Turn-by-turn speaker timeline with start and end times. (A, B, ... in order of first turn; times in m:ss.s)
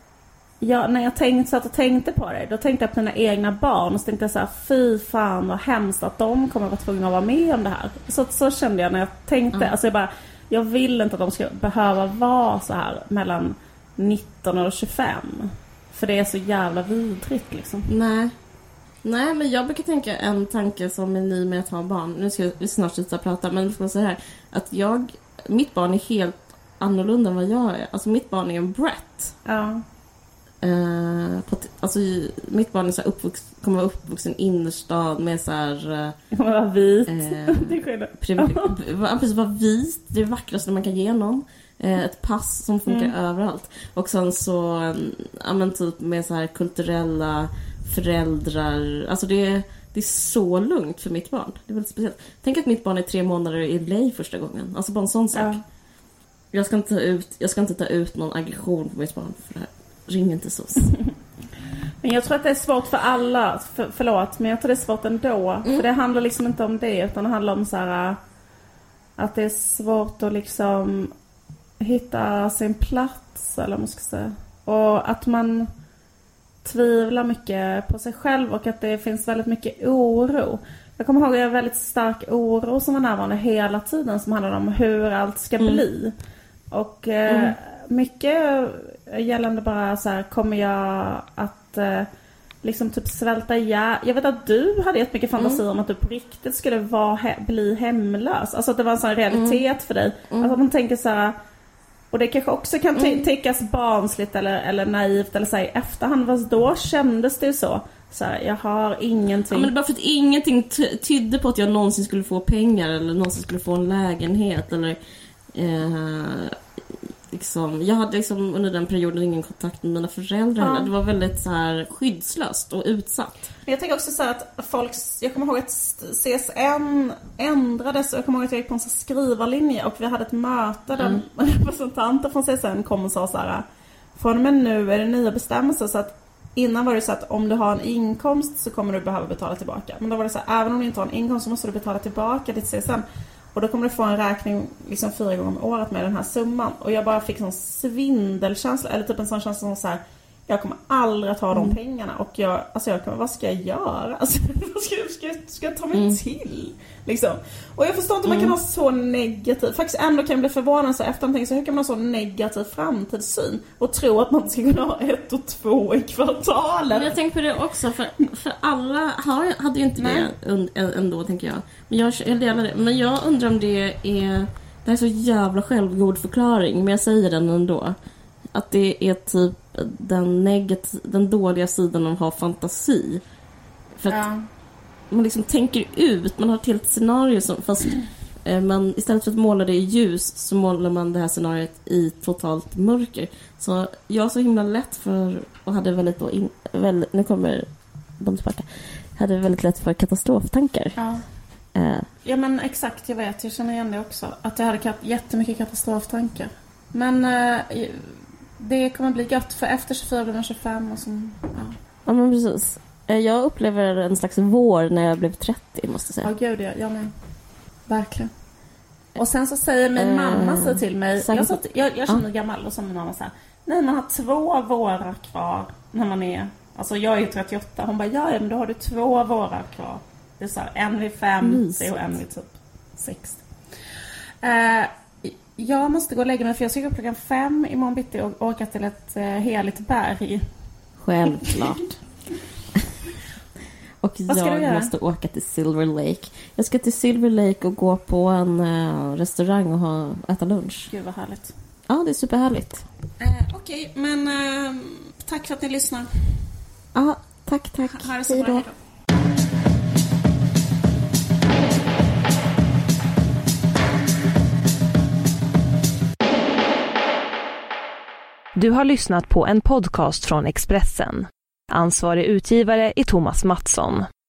0:00.6-0:17.9 A
0:17.9-0:18.4 B
0:19.0-0:29.3 B
0:29.4-0:29.8 A
0:30.6-0:36.2 B
0:36.3-0:38.7 A
0:37.1-0:55.6 B
0:42.9-0:43.1 A
0:55.3-0:55.6 A
0:56.5-1:00.9 B
1:02.0-1:08.2 A
1:09.2-1:11.1 A
1:11.8-1:15.7 A
1:16.6-1:26.1 A
1:26.7-1:32.1 A
1:27.3-1:27.6 B
1:32.6-1:41.4 A
1:39.3-1:39.6 B
1:42.1-1:49.7 A
1:43.0-1:43.3 B
1:49.5-1:55.0 B
1:55.5-1:56.6 B
1:57.3-2:03.5 B
2:00.6-2:00.9 A
2:03.7-2:13.6 A
2:14.1-2:47.1 A
2:35.9-2:36.2 B
2:38.3-2:38.5 B
2:46.9-2:58.0 B
2:50.0-2:50.3 A
2:58.5-3:03.2 B
3:04.0-3:04.2 B
3:04.1-3:04.4 A
3:05.1-3:17.7 B
3:18.2-3:21.0 B
3:21.0-3:21.2 A
3:21.7-3:22.1 B
3:22.2-3:31.7 A
3:32.0-3:36.3 B
3:36.2-3:37.1 A
3:37.9-3:38.3 A
3:39.2-3:53.4 A
3:40.0-3:42.2 B
3:51.4-3:51.9 B
3:54.4-4:00.4 A
4:01.0-4:01.9 B
4:04.0-4:10.9 B
4:04.3-4:04.9 A
4:10.9-4:11.5 A
4:11.9-4:12.8 B
4:13.2-4:16.4 A
4:17.0-4:18.6 B
4:17.9-4:18.7 A
4:28.6-4:34.1 C